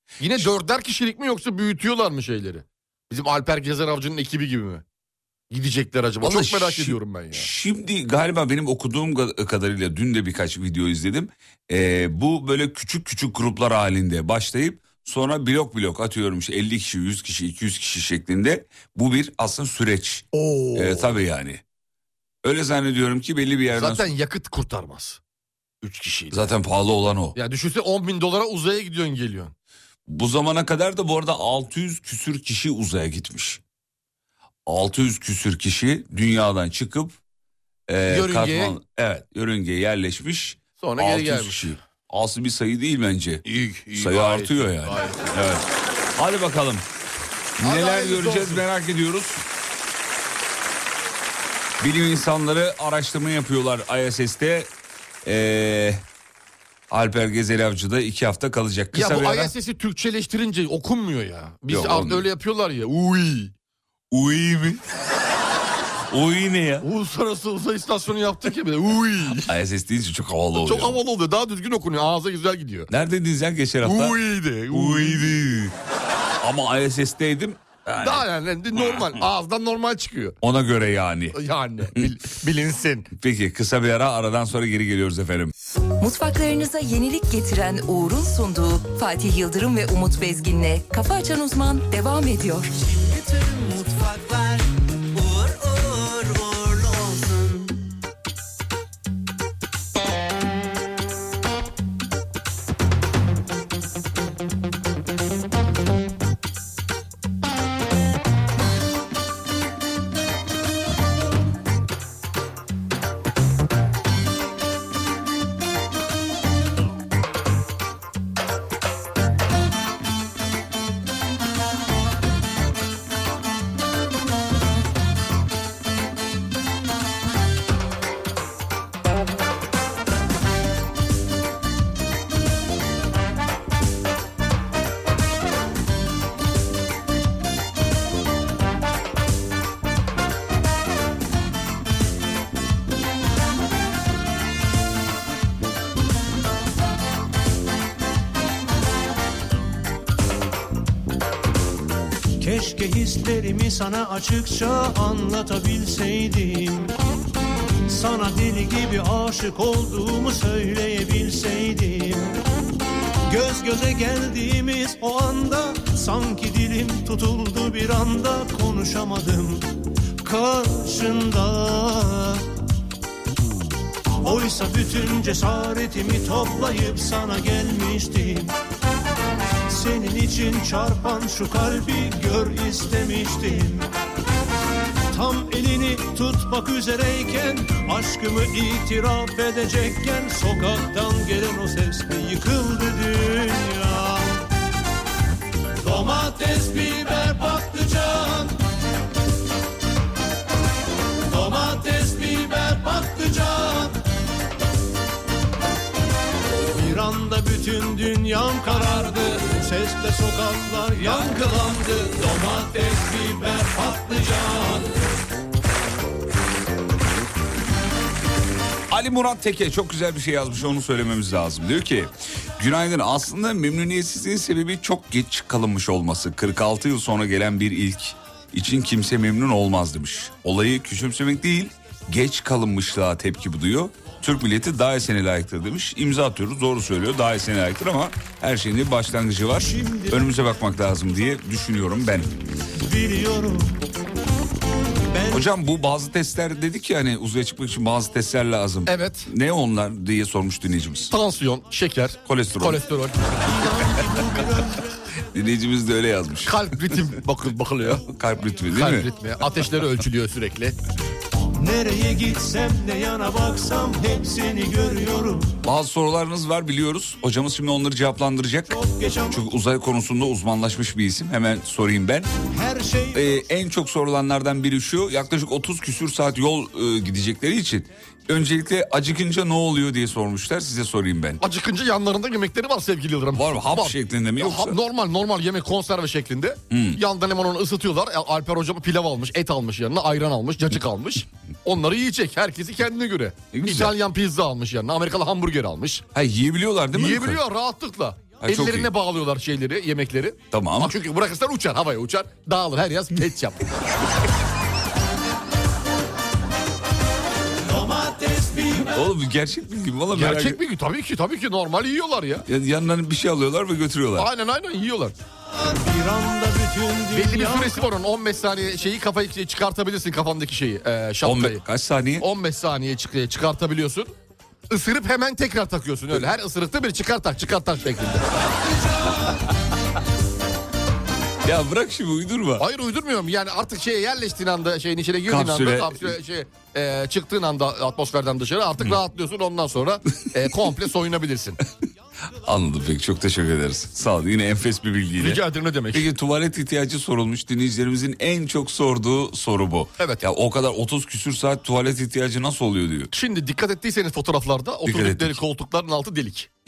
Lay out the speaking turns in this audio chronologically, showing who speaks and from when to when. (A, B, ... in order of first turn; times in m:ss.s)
0:00.2-0:04.8 A
0:05.5-0:07.5 A
0:06.2-0:21.6 B
0:20.3-0:21.1 A
0:22.4-0:24.1 B
0:23.7-0:25.2 A
0:25.8-0:26.4 A
0:26.3-0:27.4 B
0:27.4-0:29.5 A
0:30.1-0:33.6 B
0:34.7-0:37.2 B
0:37.9-0:46.9 B
0:38.1-0:38.8 A
0:40.8-0:41.8 A
0:43.5-0:45.2 A
0:47.6-0:49.4 B
0:47.6-0:48.6 A
0:51.8-0:54.7 B
0:55.2-0:56.0 B
0:56.9-0:59.5 B
0:58.9-1:03.5 A
1:01.7-1:02.3 B
1:04.1-1:04.8 B
1:06.1-1:06.9 B
1:06.8-1:09.5 A
1:09.4-1:11.0 B
1:10.6-1:12.9 A
1:12.9-1:14.2 B
1:13.8-1:15.3 A
1:14.7-1:15.8 B
1:16.4-1:19.1 B
1:18.0-1:20.4 A
1:20.4-1:21.4 B
1:21.3-1:23.1 A
1:23.1-1:25.5 B
1:26.0-1:32.7 C
1:32.8-1:37.8 D
2:32.4-2:36.9 E
2:37.9-2:42.3 E
2:43.3-2:49.7 E
2:50.2-2:52.5 E
2:54.2-2:58.5 E
2:59.7-3:03.9 E
3:05.1-3:14.4 E
3:15.8-3:18.6 E
3:21.3-3:24.0 E
3:26.7-3:34.9 E
3:38.9-4:02.4 B
3:59.6-4:00.2 E
4:02.8-4:03.8 E
4:05.1-4:05.5 E
4:05.3-4:11.1 B
4:08.9-4:09.3 A
4:11.1-4:13.5 A
4:12.2-4:12.8 B
4:13.5-4:14.9 E
4:15.3-4:17.1 B
4:16.5-4:18.0 A
4:17.8-4:19.1 B
4:18.7-4:20.8 A
4:21.6-4:25.6 E
4:25.6-4:28.7 B
4:28.7-4:29.4 E
4:29.3-4:32.3 B
4:32.5-4:33.3 E
4:33.1-4:41.4 B
4:41.4-4:56.0 A
4:43.3-4:44.8 B
4:46.7-4:47.0 B
4:53.5-4:54.0 B
4:56.1-4:57.4 B
4:56.9-5:03.7 A
4:58.4-4:58.9 B
5:00.5-5:00.9 B
5:07.6-5:09.0 E
5:08.9-5:10.6 B
5:10.1-5:12.4 A
5:12.5-5:14.3 B
5:14.2-5:15.2 A
5:15.6-5:17.8 E
5:17.1-5:21.6 A
5:21.2-5:22.3 B
5:22.2-5:24.1 A
5:24.7-5:28.3 A
5:31.4-5:32.7 B
5:32.6-5:41.6 A
5:35.2-5:36.2 B
5:42.4-5:53.1 B
5:45.2-5:46.1 A
5:53.1-5:56.5 A
5:54.8-5:55.4 B